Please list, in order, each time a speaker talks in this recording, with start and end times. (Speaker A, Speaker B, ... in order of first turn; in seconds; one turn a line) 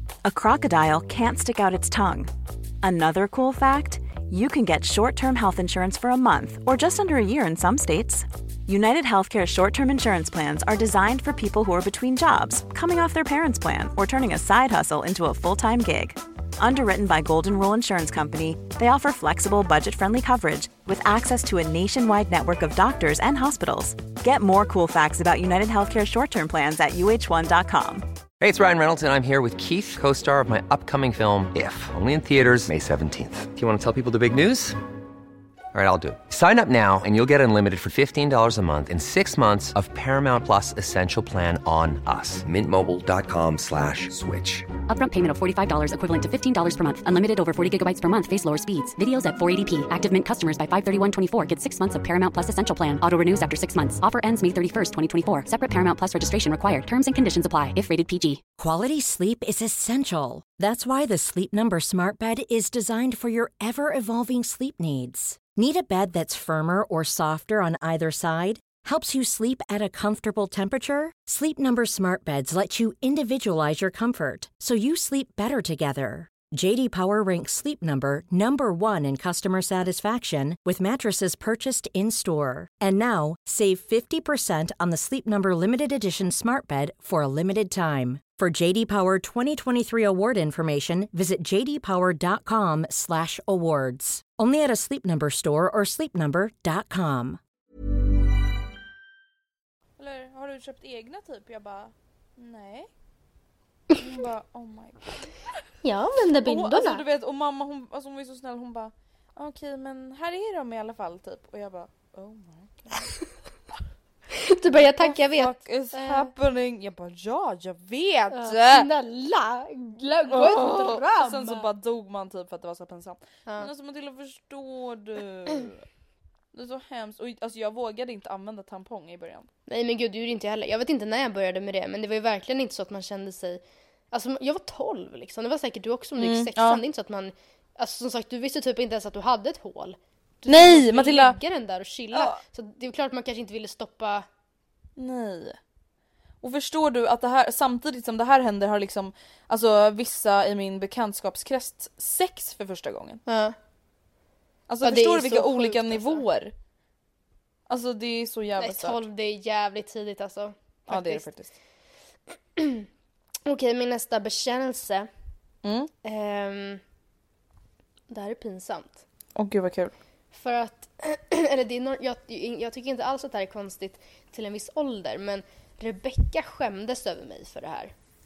Speaker A: 0.2-2.3
Speaker A: 2.8-28.1
Speaker B: 28.4-34.8
Speaker B: 35.7-44.7
Speaker C: 44.9-58.4
Speaker D: 58.6-97.4
Speaker E: 100.0-102.9
Speaker E: 103.9-105.3
Speaker F: 105.8-107.0
Speaker E: 106.4-113.1
Speaker F: 114.3-116.3
Speaker E: 115.0-118.9
Speaker F: 118.3-121.7
Speaker E: 120.3-125.8
Speaker E: 126.5-129.5
Speaker F: 129.7-144.3
Speaker E: 136.2-136.8
Speaker E: 140.5-141.4
Speaker E: 142.1-142.4
Speaker E: 145.0-145.6
Speaker E: 146.4-153.2
Speaker F: 153.3-153.6
Speaker E: 154.7-156.5
Speaker F: 154.8-156.2
Speaker E: 157.7-159.0
Speaker F: 158.6-161.3
Speaker E: 160.9-161.5
Speaker F: 162.6-162.9
Speaker F: 163.4-165.1
Speaker E: 165.6-165.9
Speaker F: 166.0-166.8
Speaker F: 168.1-169.0
Speaker E: 169.3-169.9
Speaker F: 170.3-177.9